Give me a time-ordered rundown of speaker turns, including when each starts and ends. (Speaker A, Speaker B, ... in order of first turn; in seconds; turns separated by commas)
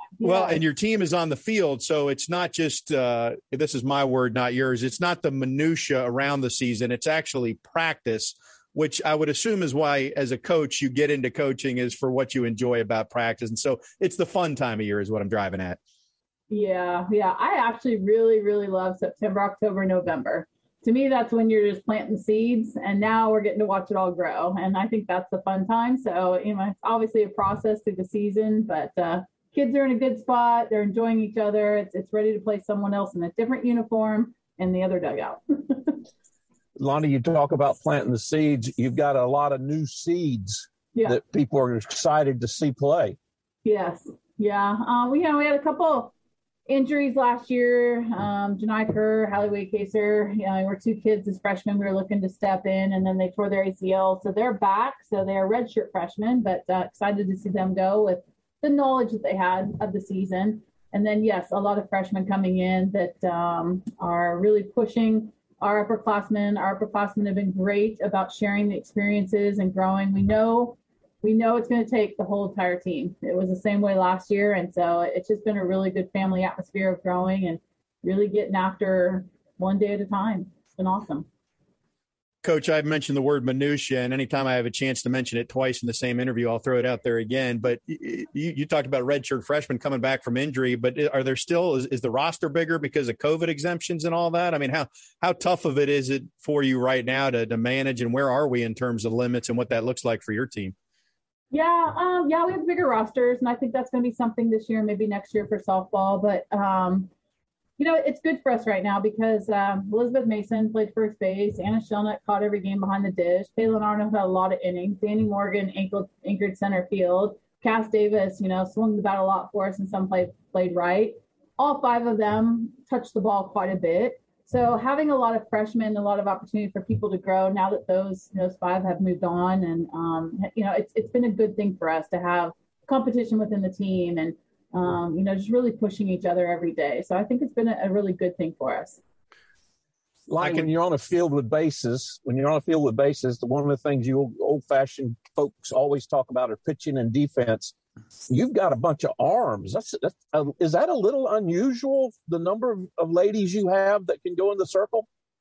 Speaker A: 0.2-0.6, Speaker B: 0.2-15.8, Speaker A: 16.5-36.0, Speaker C: 36.8-43.2, Speaker A: 40.9-41.2, Speaker A: 43.6-46.1, Speaker A: 46.7-81.3, Speaker B: 82.4-100.8, Speaker A: 101.5-107.1, Speaker A: 107.8-139.0, Speaker C: 140.3-147.8, Speaker B: 140.4-140.7, Speaker C: 148.3-155.1